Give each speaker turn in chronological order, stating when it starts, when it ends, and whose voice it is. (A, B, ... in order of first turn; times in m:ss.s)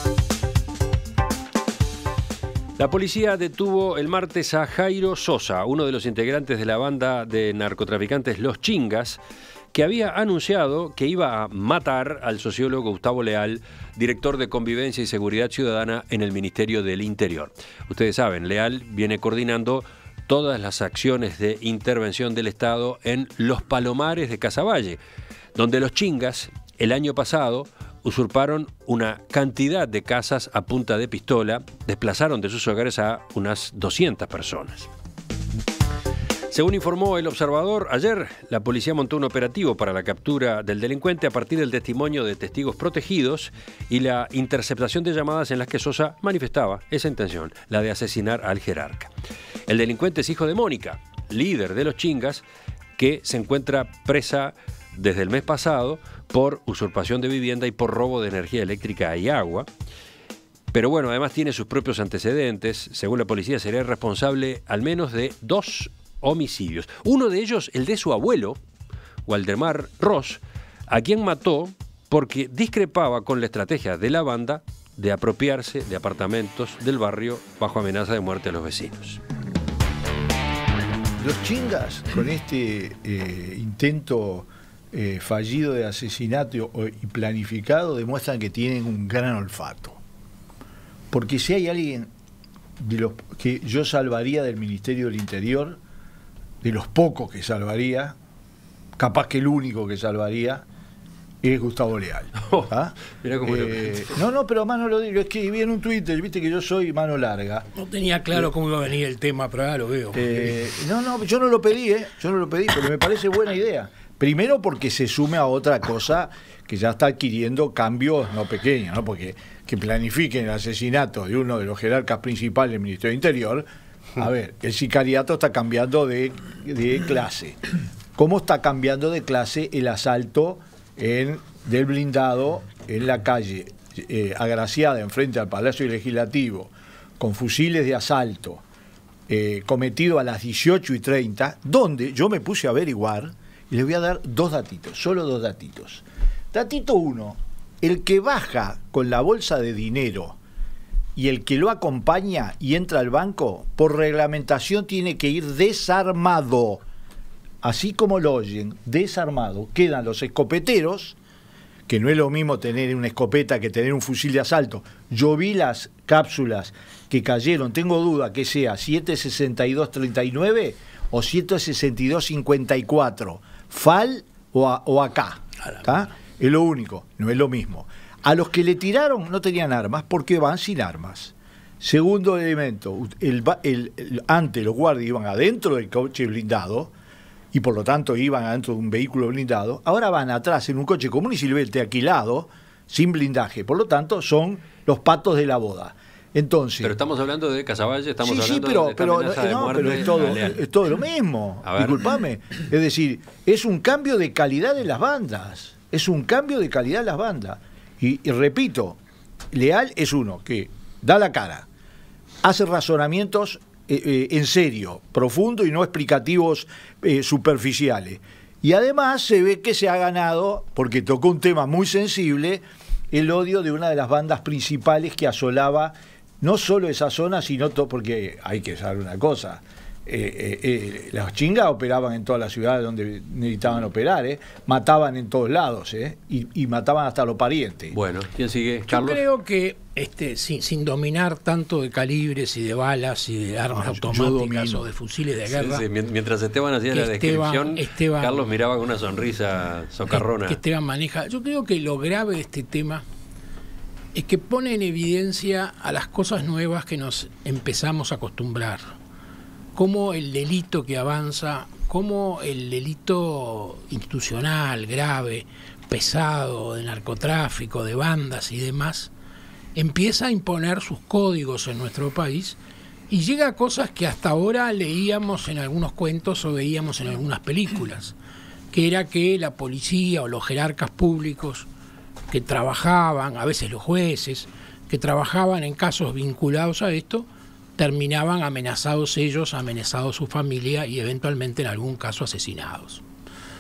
0:02.8-0:09.2 A
0:09.7-0:25.0 A
0:25.6-0:34.9 A
0:36.5-0:49.1 A
0:49.7-0:52.4 A
0:53.0-0:59.7 A
1:00.7-1:08.6 A
1:09.3-1:19.2 A
1:21.2-1:30.0 B
1:31.1-1:32.1 B
1:32.8-1:35.8 B
1:36.6-1:38.2 B
1:39.0-1:40.6 B
1:41.4-1:47.7 B
1:42.4-1:44.0 A
1:47.7-1:50.6 C
1:50.1-2:03.7 B
2:04.2-2:07.6 B
2:08.2-2:18.6 B
2:19.3-2:30.4 B
2:31.2-2:36.8 B
2:37.6-2:41.2 B
2:41.9-3:06.9 B
3:07.5-3:16.9 B
3:16.8-3:20.6 A
3:18.2-3:29.0 B
3:21.6-3:22.0 A
3:29.5-3:31.7 B
3:32.4-3:58.0 B
3:57.9-3:59.2 A
3:58.9-4:05.8 C
4:03.7-4:04.9 B
4:05.5-4:10.6 A
4:06.9-4:08.4 C
4:10.1-4:13.0 C
4:14.1-4:18.9 C
4:19.7-4:29.1 C
4:29.7-4:32.6 C
4:33.1-4:38.1 C
4:38.7-4:41.7 C
4:42.3-4:53.0 C